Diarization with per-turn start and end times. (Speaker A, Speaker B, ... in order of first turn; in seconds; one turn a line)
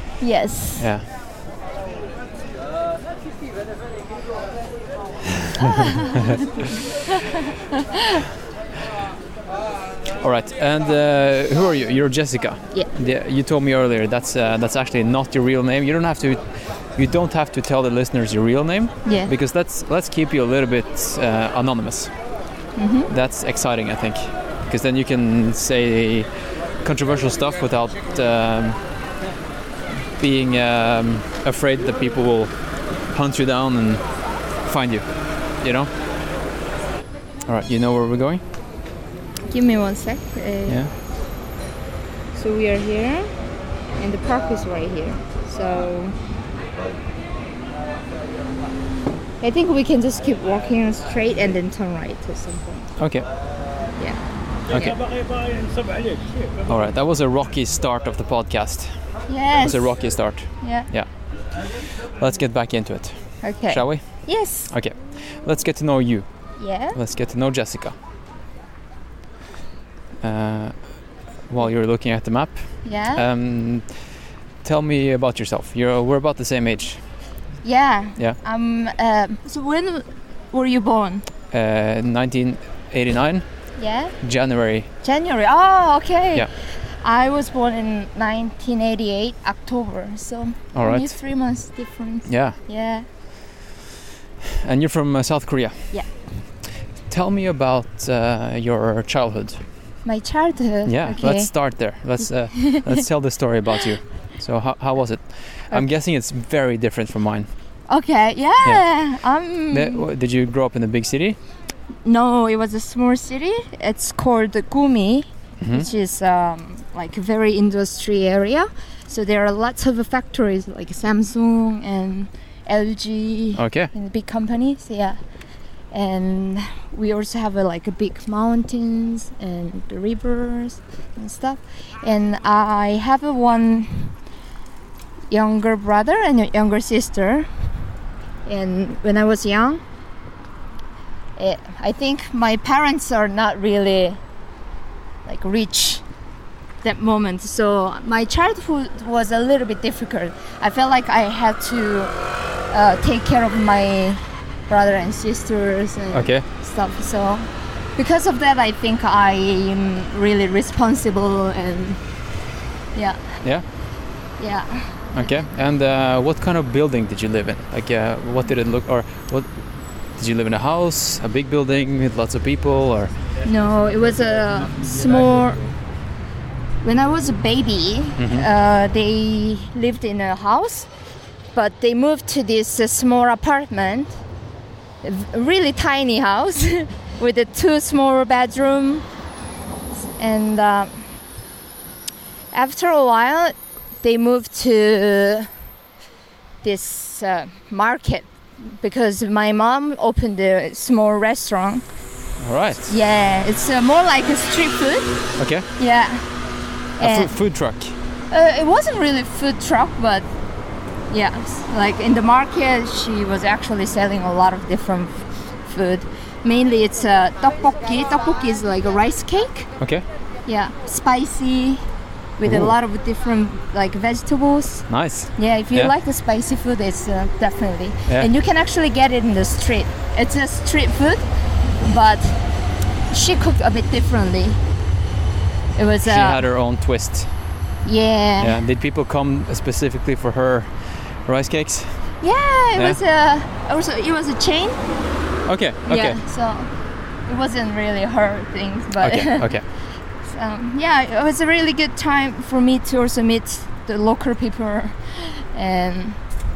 Speaker A: 0.2-0.9
Speaker B: 0.8-1.1
Speaker B: 5.6-6.4
Speaker A: 5.6-6.4
Speaker A: 7.1-8.2
Speaker B: 10.2-22.1
Speaker A: 19.0-19.3
Speaker A: 22.8-23.1
Speaker B: 23.1-26.3
Speaker B: 26.8-28.8
Speaker B: 30.2-32.5
Speaker B: 33.1-34.0
Speaker B: 34.6-35.1
Speaker B: 35.6-35.9
Speaker B: 37.5-38.4
Speaker A: 39.5-40.8
Speaker A: 42.3-43.3
Speaker A: 44.0-46.1
Speaker A: 49.4-52.9
Speaker B: 53.0-53.2
Speaker B: 54.7-55.0
Speaker B: 56.6-58.9
Speaker A: 59.3-60.0
Speaker B: 59.6-61.1
Speaker A: 60.6-60.9
Speaker B: 62.2-64.0
Speaker A: 63.4-64.7
Speaker B: 64.7-66.3
Speaker A: 66.6-67.0
Speaker B: 66.9-68.0
Speaker B: 70.2-70.8
Speaker B: 71.5-73.9
Speaker A: 72.8-73.2
Speaker B: 74.6-77.0
Speaker A: 77.6-81.2
Speaker B: 81.5-83.4
Speaker A: 83.8-84.1
Speaker B: 84.2-84.9
Speaker A: 85.0-93.0
Speaker B: 90.7-91.1
Speaker B: 92.3-92.6
Speaker B: 94.4-95.9
Speaker B: 97.1-99.6
Speaker A: 100.0-101.5
Speaker B: 100.8-107.5
Speaker A: 102.5-103.0
Speaker A: 107.9-110.0
Speaker B: 109.7-111.4
Speaker A: 112.0-125.2
Speaker B: 115.6-115.9
Speaker B: 123.5-123.9
Speaker A: 125.9-134.2
Speaker A: 135.3-137.5
Speaker A: 138.4-139.8
Speaker A: 141.4-144.2
Speaker A: 145.2-146.0
Speaker A: 146.8-152.1
Speaker A: 152.7-162.0
Speaker B: 156.1-156.4
Speaker A: 162.9-163.2
Speaker A: 164.4-165.3
Speaker B: 165.1-169.5
Speaker B: 170.2-173.1
Speaker A: 173.4-175.7
Speaker A: 176.8-180.9
Speaker B: 178.2-178.5
Speaker A: 181.5-184.2
Speaker A: 185.0-189.1
Speaker A: 190.2-191.1
Speaker A: 192.5-195.5
Speaker A: 196.6-201.8
Speaker B: 202.4-202.9
Speaker A: 202.8-206.2
Speaker B: 205.4-205.7
Speaker A: 207.0-207.3
Speaker B: 207.0-207.9
Speaker A: 208.3-210.3
Speaker A: 211.1-219.7
Speaker B: 219.8-220.0
Speaker A: 220.4-221.8
Speaker A: 222.4-231.2
Speaker B: 222.4-222.7
Speaker B: 224.9-225.9
Speaker A: 231.8-232.4
Speaker A: 233.1-234.6
Speaker A: 235.8-236.4
Speaker B: 236.0-237.3
Speaker A: 237.8-238.6
Speaker B: 238.4-240.7
Speaker B: 241.2-242.0
Speaker A: 242.2-244.8
Speaker B: 245.4-246.2
Speaker A: 245.8-246.7
Speaker A: 247.3-249.5
Speaker B: 249.0-249.6
Speaker A: 250.2-256.2